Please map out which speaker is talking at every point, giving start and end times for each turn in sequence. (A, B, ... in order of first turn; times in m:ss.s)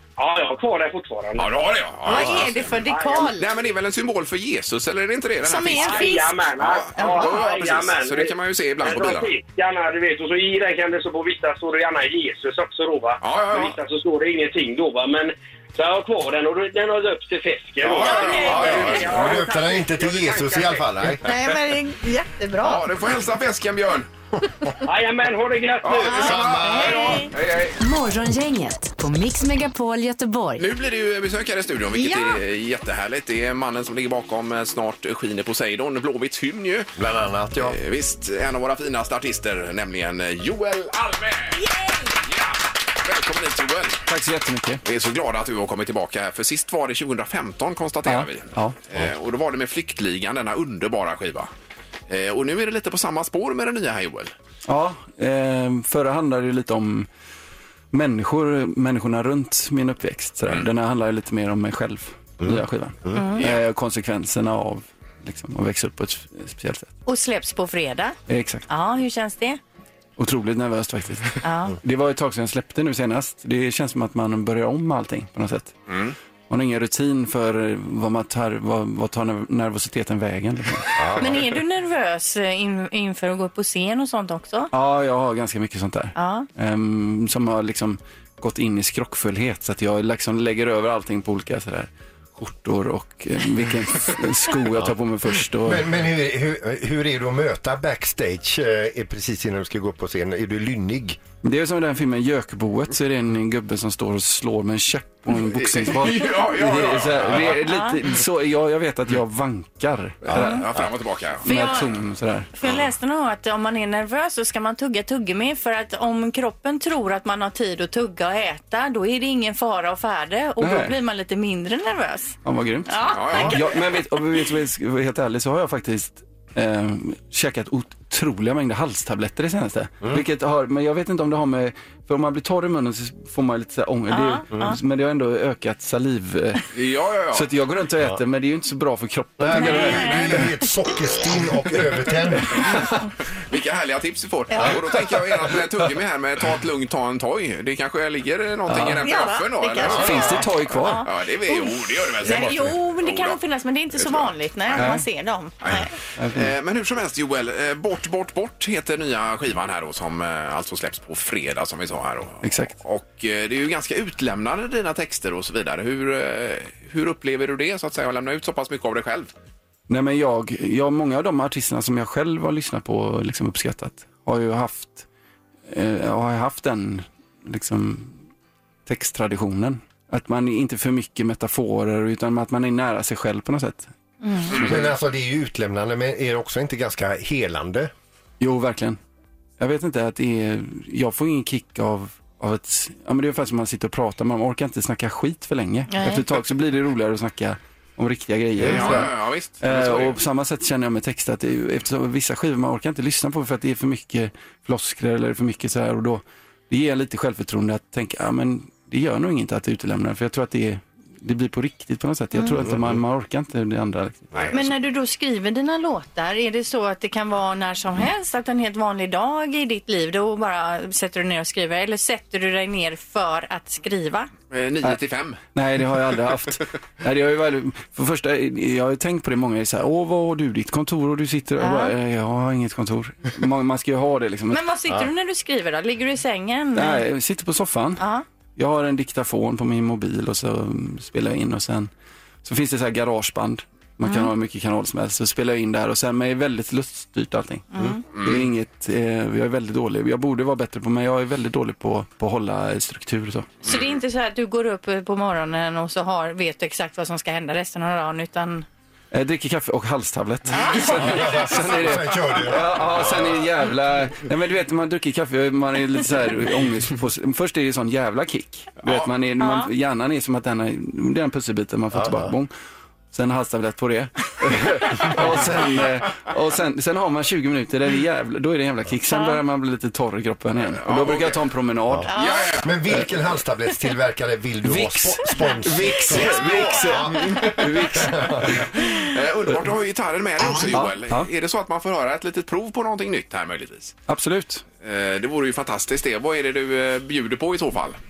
0:00.2-0:03.3 A
0:01.4-0:02.8 B
0:02.0-0:03.5 C
0:03.3-0:09.3 B
0:05.4-0:06.4 C
0:05.7-0:20.8 A
0:06.9-0:07.5 C
0:13.2-0:13.8 B
0:17.8-0:19.4 B
0:18.1-0:18.8 C
0:18.3-0:21.2 D
0:21.2-0:22.8 C
0:22.6-0:24.1 B
0:24.8-0:26.3 A
0:25.8-0:27.8 B
0:26.0-0:27.3 C
0:26.1-0:27.2 D
0:27.8-0:30.6 E
0:30.6-0:36.9 B
0:31.9-0:32.4 C
0:37.0-0:37.8 D
0:37.5-0:41.6 B
0:41.5-0:42.2 C
0:42.2-0:44.0 B
0:44.1-0:44.8 F
0:44.8-0:51.5 B
0:48.1-0:48.8 F
0:52.1-0:54.3 B
0:54.7-0:57.1 F
0:57.9-1:06.9 F
1:03.1-1:03.4 C
1:07.0-1:08.2 C
1:08.3-1:08.6 F
1:08.7-1:09.6 C
1:10.2-1:15.7 F
1:11.4-1:11.8 C
1:16.5-1:21.0 F
1:21.0-1:21.3 D
1:21.2-1:24.7 C
1:24.7-1:35.9 F
1:26.1-1:26.5 C
1:35.6-1:41.2 D
1:41.4-1:50.6 F
1:45.4-1:47.5 B
1:47.6-1:48.0 C
1:50.3-1:50.9 D
1:50.3-1:51.4 B
1:51.4-1:52.5 F
1:51.4-1:51.9 C
1:52.6-2:03.6 C
2:00.6-2:01.0 F
2:02.4-2:16.6 F
2:03.1-2:03.6 B
2:14.1-2:14.8 C
2:16.7-2:17.4 B
2:17.3-2:20.5 F
2:19.4-2:22.7 D
2:19.5-2:20.5 C
2:23.5-2:33.4 B
2:28.7-2:29.0 F
2:29.0-2:35.9 C
2:29.8-2:31.0 F
2:33.9-2:34.9 B
2:34.7-2:35.0 F
2:35.6-2:49.3 B
2:36.2-2:36.5 F
2:42.4-2:42.7 F
2:49.9-2:55.1 F
2:55.7-2:58.2 F
2:58.8-3:03.9 F
3:04.2-3:04.5 C
3:04.5-3:07.9 D
3:04.5-3:04.8 B
3:08.4-3:09.0 F
3:09.6-3:34.6 F
3:15.9-3:16.2 C
3:18.6-3:20.2 B
3:18.7-3:19.0 D
3:34.5-3:44.3 C
3:44.5-3:45.4 B
3:45.5-3:54.6 F
3:51.6-3:51.9 C
3:54.5-3:57.0 C
3:56.7-3:58.0 F
3:58.0-3:58.2 C
3:58.6-4:01.9 F
4:02.4-4:13.6 F
4:04.0-4:04.3 C
4:07.7-4:08.0 C
4:08.1-4:08.5 B
4:13.6-4:18.6 C
4:19.1-4:32.5 F
4:20.9-4:23.4 D
4:29.4-4:29.7 C
4:31.9-4:32.3 D
4:33.1-4:42.2 F
4:39.1-4:39.4 C
4:40.8-4:41.4 B
4:42.1-4:42.6 C
4:42.1-4:42.6 B
4:42.6-4:48.6 D
4:44.6-4:49.0 F
4:46.1-4:47.6 B
4:49.0-4:54.0 B
4:50.7-4:51.3 F
4:54.1-4:54.6 F
4:54.8-4:58.0 B